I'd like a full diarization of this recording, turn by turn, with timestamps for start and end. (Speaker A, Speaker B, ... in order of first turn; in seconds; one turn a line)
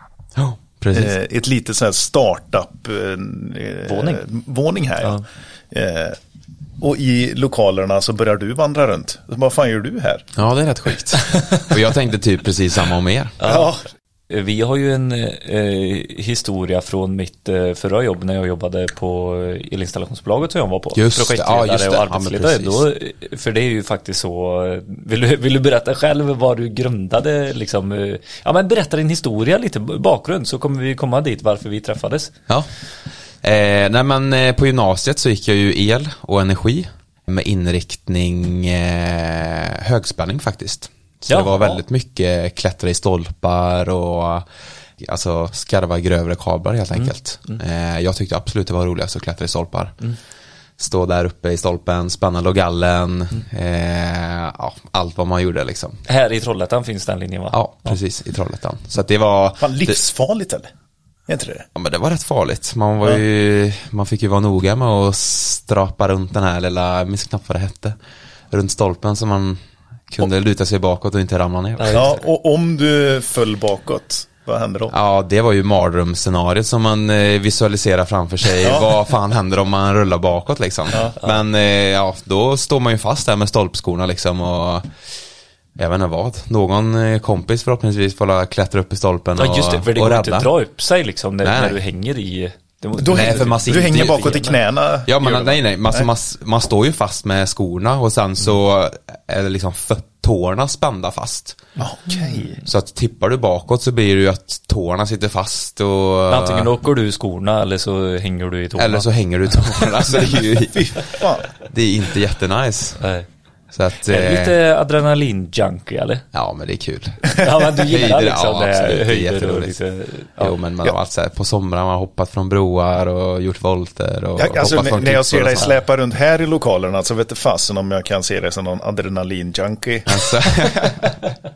Speaker A: 0.3-1.1
Speaker B: 0.9-6.2
Speaker C: 3.9-4.2
Speaker B: 6.8-10.3
Speaker A: 10.3-13.4
Speaker C: 11.3-11.6
Speaker C: 13.4-13.7
Speaker B: 13.4-13.8
Speaker C: 14.3-32.3
Speaker A: 20.9-22.9
Speaker A: 33.4-44.5
Speaker C: 41.3-41.8
Speaker A: 45.0-50.0
Speaker C: 46.9-47.6
Speaker A: 50.8-56.0
Speaker C: 56.1-58.0
Speaker A: 57.5-60.0
Speaker B: 59.6-60.7
Speaker B: 61.3-61.6
Speaker A: 61.7-68.0
Speaker A: 68.5-72.2
Speaker C: 71.8-72.2
Speaker B: 71.9-74.9
Speaker A: 74.9-84.9
Speaker B: 78.6-78.9
Speaker A: 85.8-90.5
Speaker C: 89.4-94.6
Speaker A: 91.4-91.8
Speaker B: 93.0-96.1
Speaker A: 93.1-94.5
Speaker A: 95.0-101.6
Speaker B: 101.8-102.6
Speaker C: 102.1-102.4
Speaker A: 102.6-106.7
Speaker C: 106.3-109.1
Speaker A: 108.8-113.0
Speaker B: 110.7-111.5
Speaker C: 113.0-113.3
Speaker A: 113.7-114.5
Speaker C: 114.0-116.2
Speaker A: 116.3-119.8
Speaker C: 117.3-120.5
Speaker A: 120.4-125.7
Speaker B: 124.3-130.7
Speaker A: 130.1-131.1